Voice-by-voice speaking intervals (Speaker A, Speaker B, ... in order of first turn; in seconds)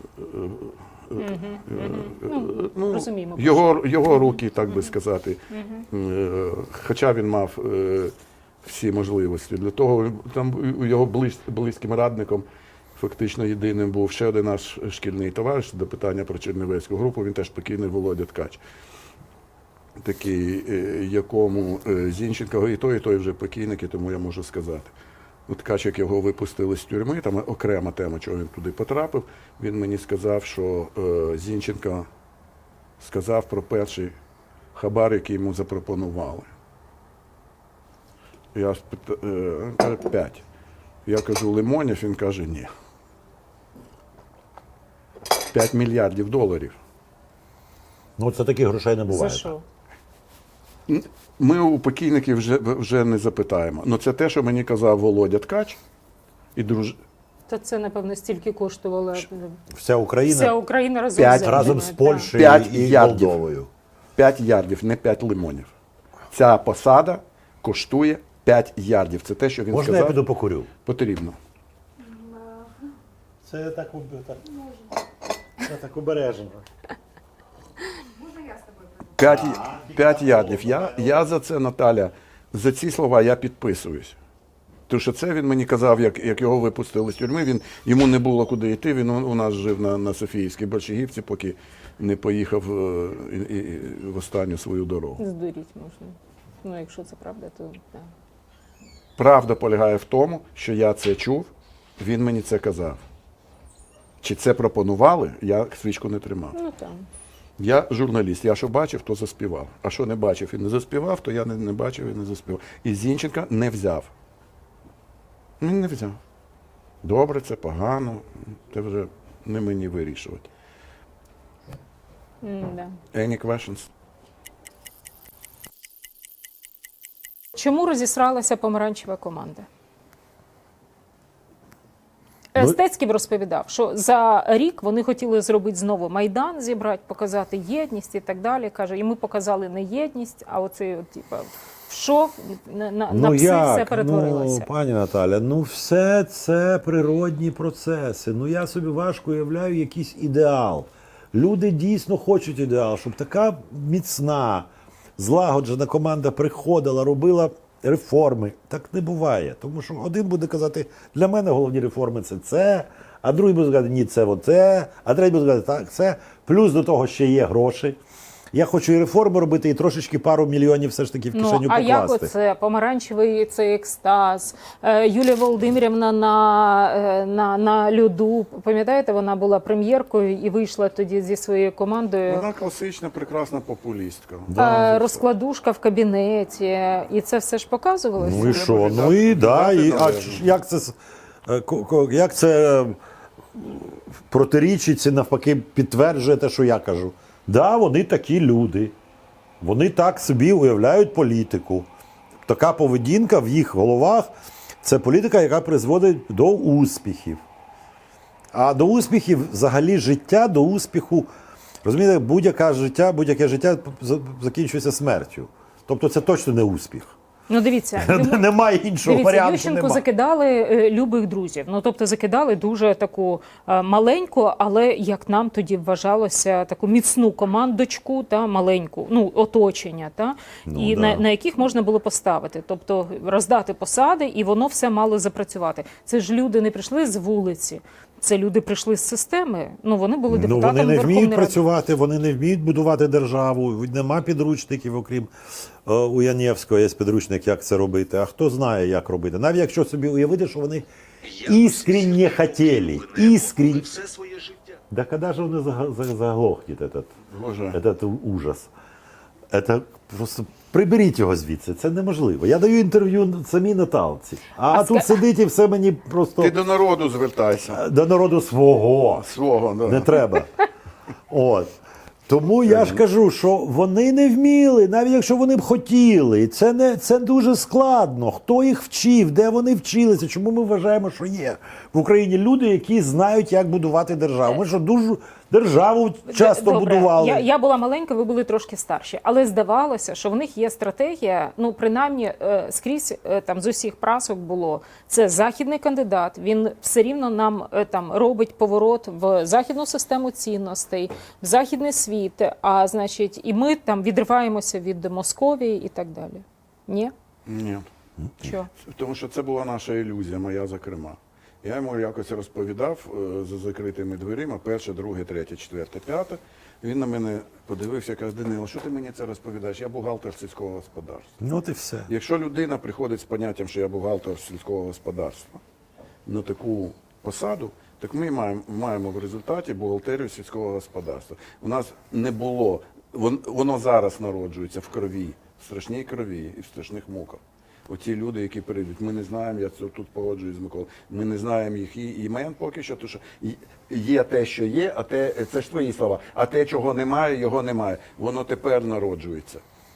Speaker A: 0.2-5.4, 5.9-18.6, 20.0-24.9, 25.5-32.1, 33.0-34.1, 34.7-36.5, 38.5-40.4, 41.0-42.7, 45.5-46.8, 50.9-55.8, 56.5-57.0, 61.1-63.4, 64.2-65.7, 66.3-70.2, 70.8-71.3, 79.2-84.2, 84.9-95.2, 99.2-103.0, 104.2-106.6, 107.6-114.1, 115.6-116.2, 117.0-120.5, 123.1-123.9, 182.3-185.2, 188.3-190.6, 257.3-257.8, 266.4-267.8, 269.1-270.3, 272.6-273.0, 307.5-307.9, 308.8-321.3, 322.1-325.6, 326.2-349.6
Speaker B: 1.2-4.9, 5.5-5.8, 49.1-49.6, 57.5-59.6, 60.2-62.3, 95.2-98.1, 106.5-107.0, 122.4-123.0, 127.5-129.7, 132.5-144.7, 171.3-182.5, 184.5-188.7, 217.5-218.4, 219.0-241.6, 264.7-265.2, 286.3-307.1, 308.4-308.7
Speaker C: 48.2-49.5, 59.7-60.5, 61.3-63.7, 69.7-70.7, 73.4-74.7, 75.6-76.6, 79.2-81.2, 143.1-168.0, 168.5-172.3, 184.5-185.0, 188.2-193.0, 193.5-198.9, 199.6-201.9, 202.5-207.4, 208.5-211.3, 211.8-217.1, 217.9-220.0, 230.7-231.2, 240.3-245.3, 245.8-254.2, 254.9-257.1, 257.7-258.7, 259.5-266.5, 267.7-269.2, 269.9-270.5, 271.3-271.7, 272.3-287.5, 321.4-322.1